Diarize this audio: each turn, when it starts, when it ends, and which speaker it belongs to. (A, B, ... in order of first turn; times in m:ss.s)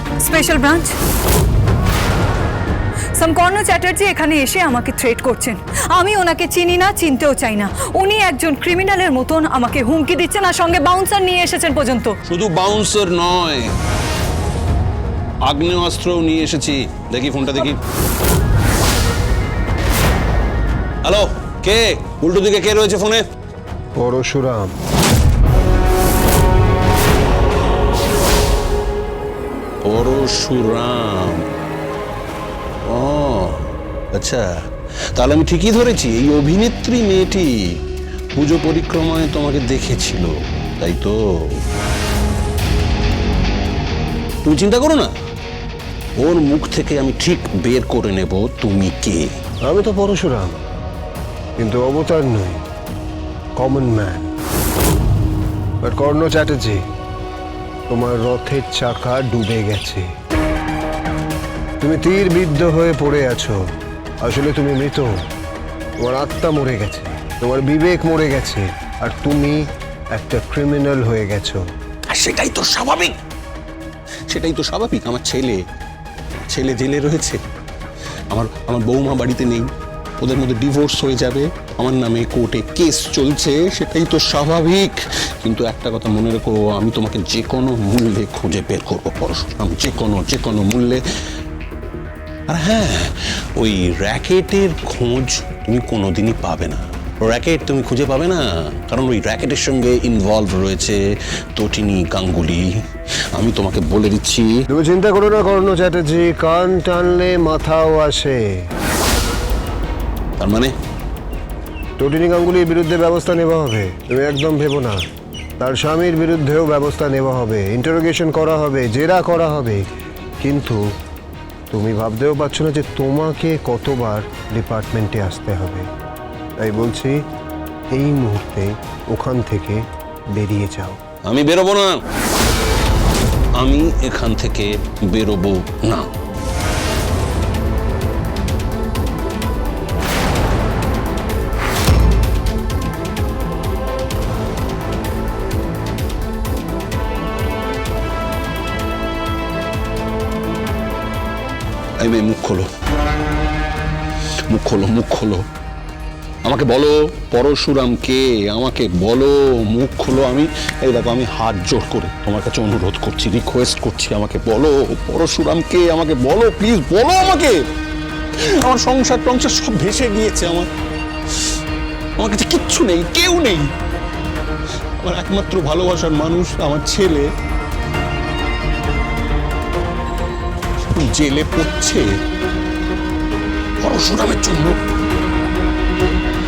0:00.2-0:00.9 A
0:03.2-0:12.2 A
0:12.3-0:13.7 B
0:15.4-0:17.8 B
0:21.0-0:23.2 B
0:24.0-0:24.7 C
0:29.8-0:31.4 B
0:32.8-0:34.5 B
0:35.1-0:37.8 B
0:38.4-0:41.6 B
0:44.4-0:45.1 B
0:46.2-0:49.4 B
0:49.6-0:50.6 C
0:51.6-0:52.6 C
0:53.6-0:54.3 C
0:55.8-0:56.8 C
0:57.9-1:00.1 C
1:01.8-1:03.6 C
1:04.2-1:05.2 C
1:06.0-1:11.6 C
1:12.1-1:13.2 B
1:14.3-1:15.6 B
1:16.4-1:17.4 B
1:18.3-1:31.0 B
1:32.5-1:41.0 B
1:41.6-1:42.7 B
1:43.4-1:44.6 B
1:44.7-1:48.7 C
1:50.4-1:50.7 B
1:52.0-1:55.0 C
1:55.6-1:59.8 C
2:00.4-2:00.8 C
2:01.7-2:05.9 C
2:06.6-2:07.2 C
2:07.9-2:11.0 C
2:11.2-2:12.0 B
2:13.6-2:16.1 B
2:32.0-2:32.7 B
2:34.5-2:35.4 B
2:36.4-2:47.6 B
2:48.6-2:50.7 B
2:52.2-2:53.7 B
2:55.0-2:57.3 B
3:00.9-3:02.1 B
3:03.8-3:04.8 B